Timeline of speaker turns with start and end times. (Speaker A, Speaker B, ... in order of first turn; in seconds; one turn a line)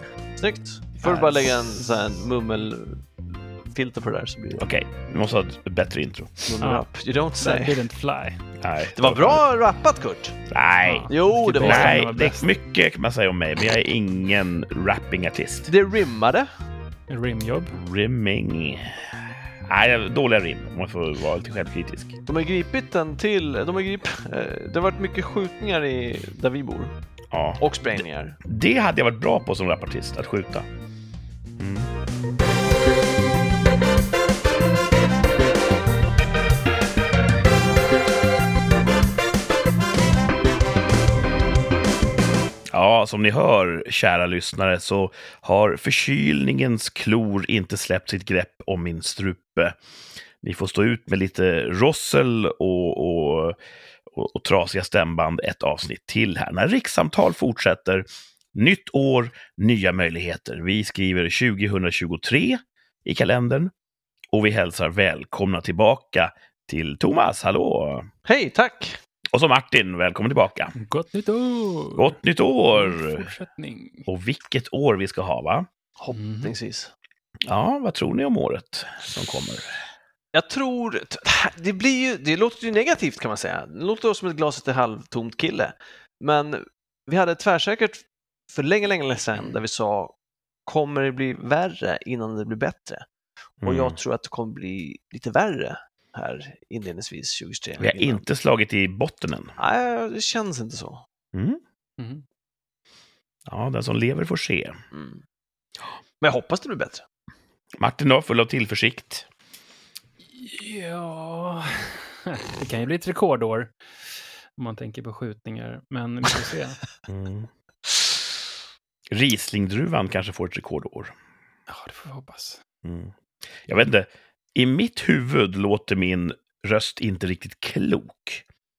Speaker A: 0.4-3.0
Speaker B: 1.0-1.5
Speaker A: 3.7-4.7
Speaker B: 4.5-6.5
Speaker A: 6.5-7.8
Speaker C: 6.6-6.9
Speaker C: 7.4-8.4
Speaker B: 8.6-9.4
Speaker A: 8.9-10.4
Speaker B: 10.5-15.7
Speaker C: 10.8-12.5
Speaker A: 11.1-12.0
Speaker A: 15.7-16.5
Speaker C: 17.1-17.8
Speaker B: 17.7-22.2
Speaker A: 22.3-26.9
Speaker B: 27.3-30.7
Speaker A: 27.6-28.4
Speaker B: 31.6-31.9
Speaker B: 42.7-49.8
Speaker B: 50.4-53.6
Speaker B: 54.1-63.7
Speaker B: 64.3-68.1
Speaker A: 68.2-69.0
Speaker B: 69.3-70.7
Speaker C: 70.7-72.2
Speaker B: 72.0-73.3
Speaker C: 72.7-74.1
Speaker B: 74.1-75.7
Speaker A: 76.0-76.9
Speaker C: 76.1-76.5
Speaker B: 77.5-79.8
Speaker A: 80.3-90.1
Speaker A: 90.7-93.0
Speaker B: 93.6-94.0
Speaker A: 93.6-98.2
Speaker B: 97.8-99.5
Speaker A: 99.6-101.0
Speaker B: 101.3-101.6
Speaker C: 102.0-102.2
Speaker B: 103.5-104.8
Speaker A: 104.9-105.2
Speaker A: 106.2-107.0
Speaker B: 107.8-109.3
Speaker C: 110.3-116.8
Speaker B: 117.1-117.5
Speaker B: 119.1-121.1
Speaker C: 121.7-122.6
Speaker B: 122.8-128.4